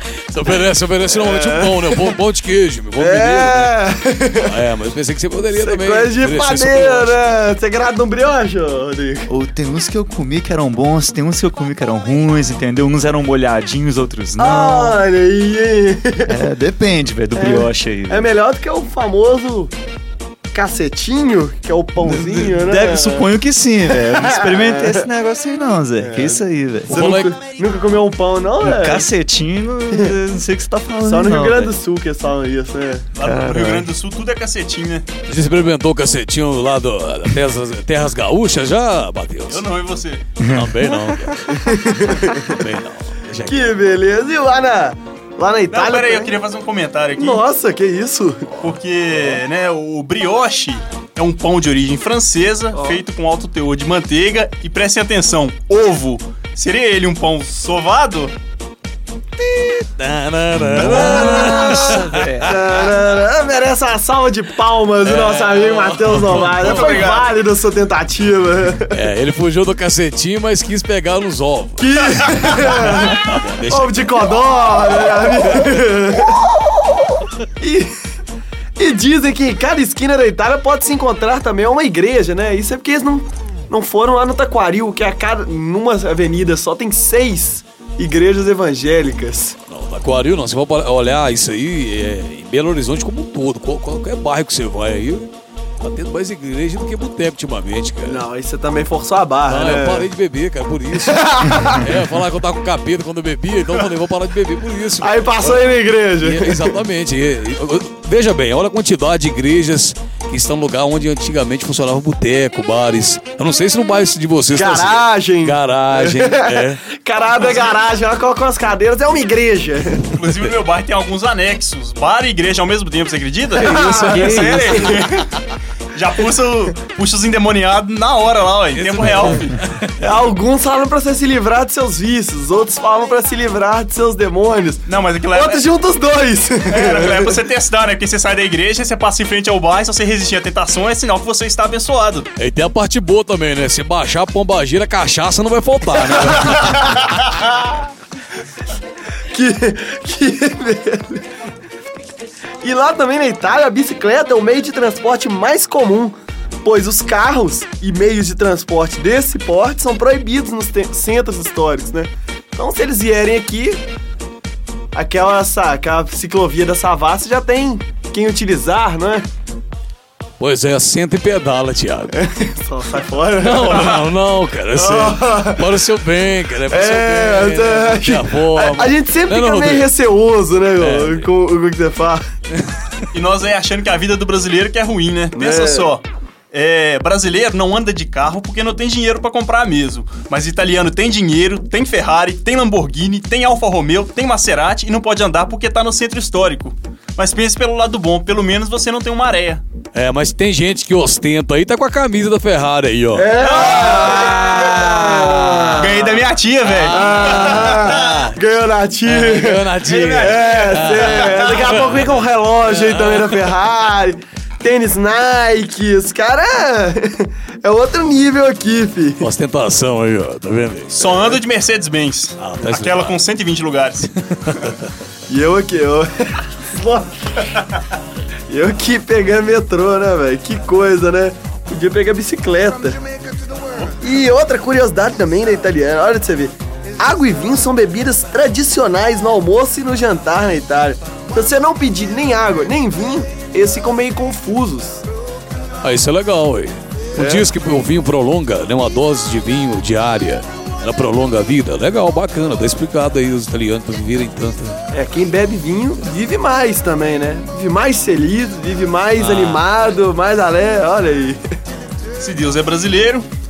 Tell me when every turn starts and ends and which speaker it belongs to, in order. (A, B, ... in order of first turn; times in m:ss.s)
0:00.3-0:03.8 A
0:01.1-0:02.2 B
0:03.0-0:04.6 B
0:04.4-0:07.2 A
0:05.5-0:09.3 B
0:09.3-0:15.0 C
0:14.4-0:16.4 B
0:16.3-0:18.3 C
0:17.3-0:19.7 B
0:20.5-0:23.3 B
0:22.0-0:27.1 C
0:23.9-0:25.0 B
0:26.0-0:29.1 B
0:26.9-0:27.4 A
0:28.6-0:31.7 C
0:31.0-0:33.1 B
0:33.1-0:35.1 D
0:33.2-0:33.9 C
0:35.3-0:39.6 A
0:39.5-0:40.3 D
0:40.5-0:43.8 A
0:41.4-0:42.5 B
0:43.4-0:46.3 B
0:45.7-0:47.4 D
0:47.2-0:48.6 B
0:48.6-0:58.3 D
0:52.7-0:53.0 B
0:59.4-1:02.7 A
1:00.8-1:01.6 D
1:00.9-1:09.0 B
1:01.0-1:02.6 C
1:05.0-1:07.1 A
1:06.3-1:07.3 D
1:08.9-1:14.4 A
1:11.8-1:16.5 B
1:17.6-1:17.9 B
1:18.8-1:29.6 B
1:29.7-1:38.2 A
1:38.0-1:40.1 B
1:39.5-1:56.8 A
1:40.9-1:41.9 B
1:45.0-1:46.8 B
1:54.5-2:00.1 B
2:00.1-2:05.3 D
2:00.1-2:00.5 A
2:03.5-2:05.0 B
2:03.6-2:05.2 A
2:03.9-2:04.8 C
2:05.9-2:09.6 D
2:08.7-2:09.9 A
2:10.0-2:17.4 B
2:14.8-2:15.6 D
2:16.7-2:22.3 D
2:22.4-2:27.1 A
2:29.3-2:31.2 B
2:32.6-2:43.8 B
2:44.9-2:49.2 B
2:50.4-2:52.2 A
2:52.1-2:54.1 B
2:53.4-2:59.9 A
2:54.7-2:55.7 B
2:56.7-3:02.2 B
3:00.8-3:01.3 A
3:02.5-3:03.1 A
3:03.1-3:19.6 D
3:05.3-3:05.9 B
3:19.9-3:25.9 A
3:23.1-3:26.2 B
3:23.4-3:24.4 D
3:25.8-3:28.0 D
3:26.6-3:28.4 A
3:26.9-3:39.3 B
3:29.0-3:33.5 A
3:29.8-3:31.4 D
3:39.2-3:41.4 A
3:41.0-3:44.7 D
3:42.4-3:43.2 A
3:44.4-3:44.9 A
3:45.3-3:47.7 B
3:48.5-3:53.0 B
3:53.8-4:05.0 B
4:05.8-4:14.8 A
4:07.1-4:07.5 B
4:14.9-4:21.4 B
4:19.2-4:19.6 A
4:22.2-4:23.3 D